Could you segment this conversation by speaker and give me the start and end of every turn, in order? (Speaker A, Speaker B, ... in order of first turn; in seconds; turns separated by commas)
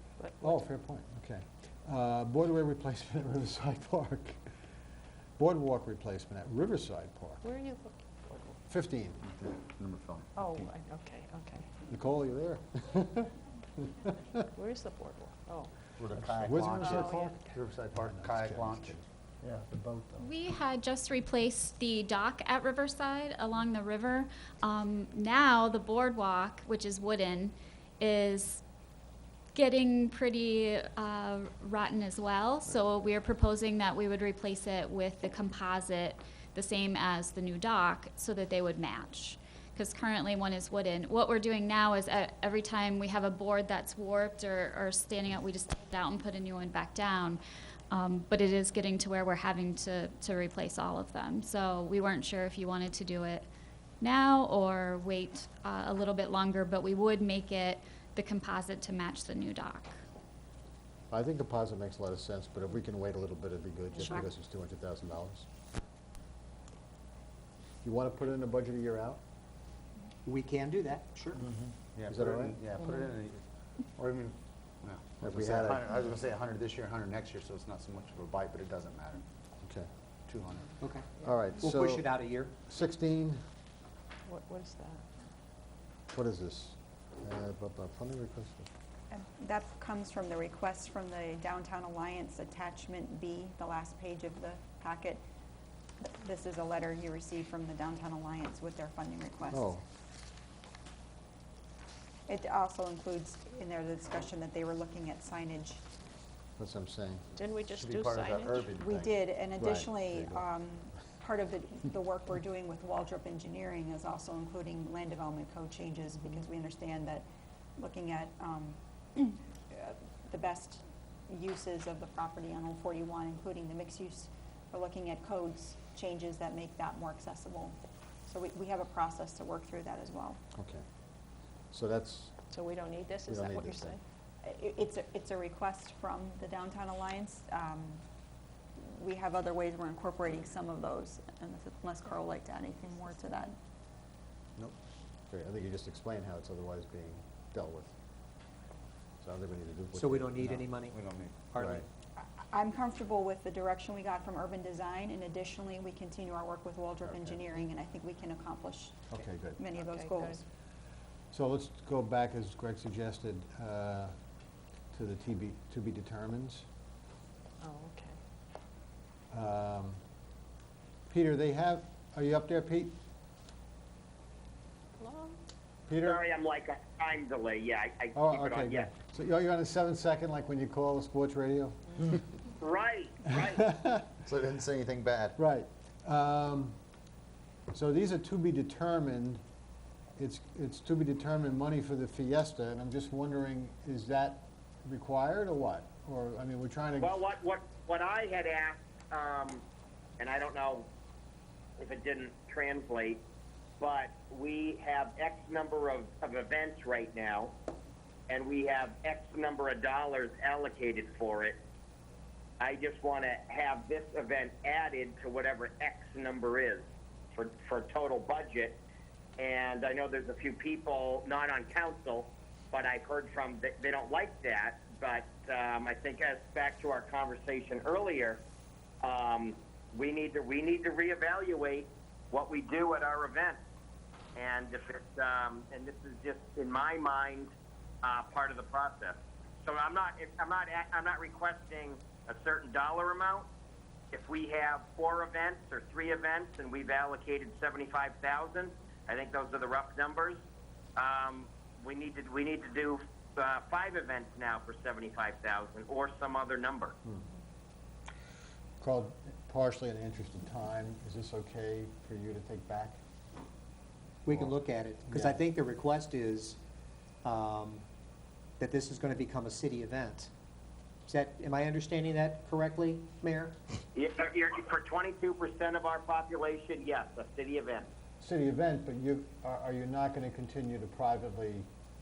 Speaker A: 0.2-0.5, Speaker B: 0.4-4.4, Speaker B: 5.4-7.4, Speaker A: 7.4-8.5, Speaker B: 8.7-9.2, Speaker C: 9.2-10.7, Speaker A: 10.4-11.7, Speaker B: 11.8-13.3, Speaker A: 14.5-15.7, Speaker C: 16.0-20.1, Speaker B: 16.4-19.0, Speaker A: 16.8-17.5, Speaker D: 20.2-28.6, Speaker D: 29.5-53.5, Speaker D: 54.0-60.0, Speaker B: 61.1-65.5, Speaker B: 67.8-69.2, Speaker E: 70.2-71.4, Speaker C: 71.4-73.4, Speaker B: 72.1-72.6, Speaker C: 73.9-79.2, Speaker B: 75.2-76.0, Speaker B: 79.6-79.9, Speaker C: 80.3-80.8, Speaker E: 80.8-82.5, Speaker B: 81.2-82.1, Speaker B: 82.7-83.4, Speaker A: 84.3-85.0, Speaker B: 86.1-88.7, Speaker F: 89.1-95.2, Speaker F: 96.0-99.7, Speaker B: 99.5-99.8, Speaker F: 102.3-105.8, Speaker B: 106.6-107.2, Speaker A: 107.3-108.7, Speaker C: 107.7-109.1, Speaker F: 108.8-117.2, Speaker B: 109.6-110.4, Speaker F: 117.8-130.4, Speaker B: 130.6-130.8, Speaker B: 131.7-132.3, Speaker A: 132.5-134.0, Speaker B: 133.2-134.0, Speaker F: 134.4-138.0, Speaker F: 138.8-143.6, Speaker B: 145.3-147.9, Speaker B: 149.2-150.4, Speaker E: 149.9-151.0, Speaker C: 150.4-151.4, Speaker E: 151.5-151.8, Speaker B: 151.6-151.8, Speaker F: 152.2-159.1, Speaker B: 159.1-159.6, Speaker F: 159.6-160.4, Speaker A: 159.8-160.4, Speaker B: 161.3-164.2, Speaker B: 164.9-166.7, Speaker A: 167.6-168.2, Speaker B: 169.3-170.0, Speaker B: 171.1-172.9, Speaker A: 175.0-175.4, Speaker B: 175.9-176.2, Speaker G: 176.0-178.9, Speaker B: 178.1-182.0, Speaker G: 182.6-183.6, Speaker B: 183.6-184.0, Speaker C: 184.2-185.4, Speaker B: 185.4-186.8, Speaker B: 187.7-189.4, Speaker B: 190.2-197.2, Speaker G: 197.0-199.6, Speaker G: 200.2-200.9, Speaker G: 201.8-203.2, Speaker G: 203.8-207.5, Speaker G: 208.3-211.6, Speaker G: 212.6-218.8, Speaker G: 219.4-228.4, Speaker G: 229.0-233.6, Speaker G: 234.3-237.5, Speaker G: 238.0-243.4, Speaker G: 244.1-250.4, Speaker G: 250.9-256.9, Speaker B: 258.8-263.0, Speaker E: 264.2-266.6, Speaker B: 265.1-265.4, Speaker E: 267.2-267.8, Speaker E: 268.6-270.3, Speaker E: 271.1-273.6, Speaker G: 273.9-277.9, Speaker B: 278.2-281.7